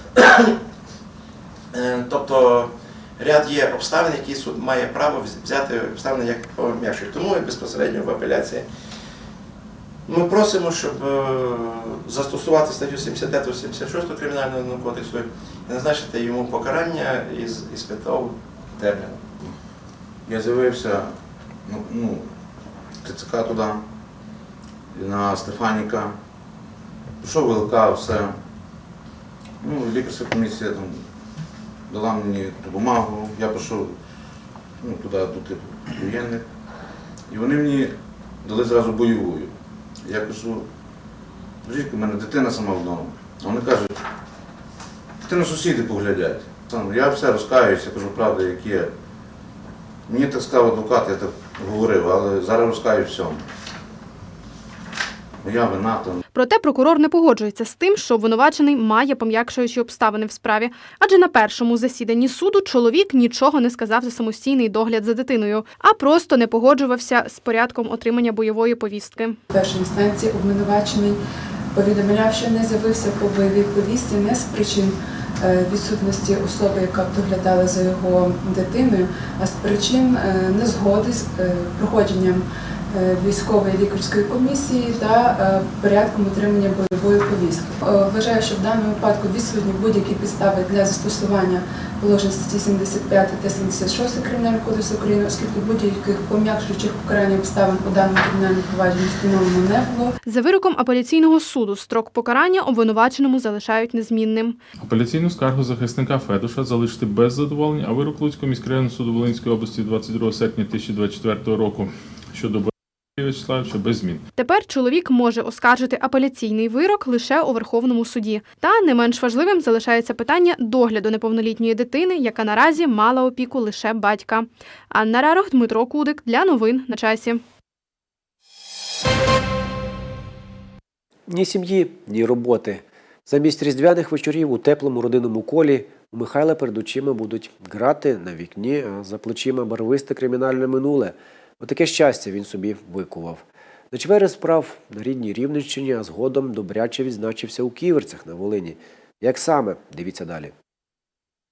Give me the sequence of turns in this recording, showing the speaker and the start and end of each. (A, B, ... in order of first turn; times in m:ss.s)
0:00.2-0:00.5 A
0:01.7-0:08.7 A
0:10.1-0:19.3 A
0:20.3-0:21.1 B
0:21.7-0:22.3 B
0:23.0-0:23.8 B
0:24.9-0:26.2 B
0:27.2-0:28.4 B
0:29.6-0:31.0 B
0:31.9-0:34.0 B
0:34.8-0:36.4 B
0:37.3-0:40.7 B
0:41.6-0:43.9 B
0:45.2-0:48.9 B
0:50.1-0:53.4 B
0:55.4-0:56.2 B
0:56.3-1:09.4 C
1:09.5-1:11.2 D
1:11.7-1:40.1 D
1:40.3-1:44.6 C
1:44.8-1:54.2 E
1:54.4-2:07.4 C
2:11.3-2:30.5 F